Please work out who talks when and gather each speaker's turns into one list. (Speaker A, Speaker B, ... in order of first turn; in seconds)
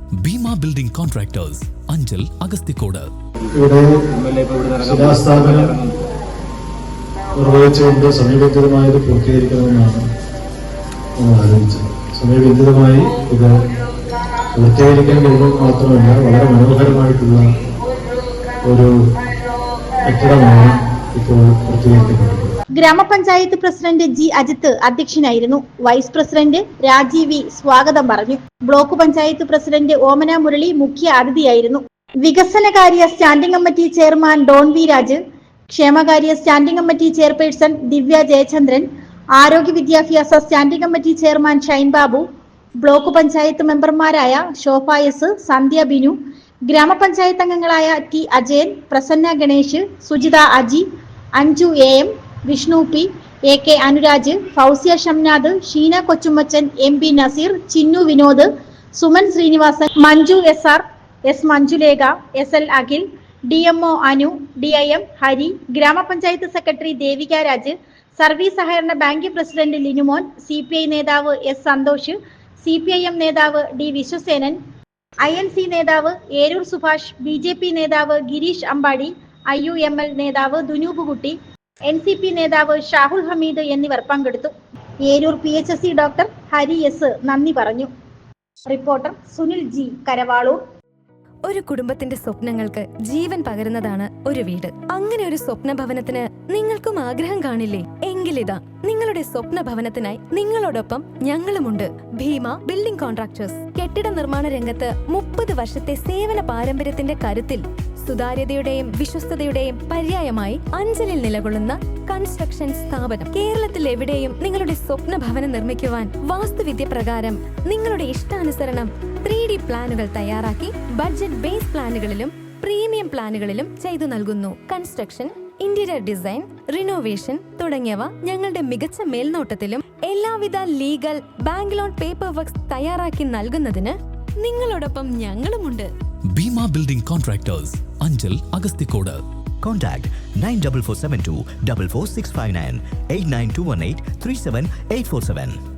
Speaker A: 0.2-3.1, 136.3-139.2
Speaker B: 3.6-3.9, 4.8-5.8, 7.4-10.0, 11.2-13.5, 14.6-17.5, 20.1-22.5
Speaker C: 22.8-38.8, 39.4-42.2, 42.8-46.1, 46.7-50.8, 51.4-74.6, 75.2-84.5, 85.0-87.9, 88.7-90.6
Speaker D: 91.5-135.9
Speaker E: 139.6-145.5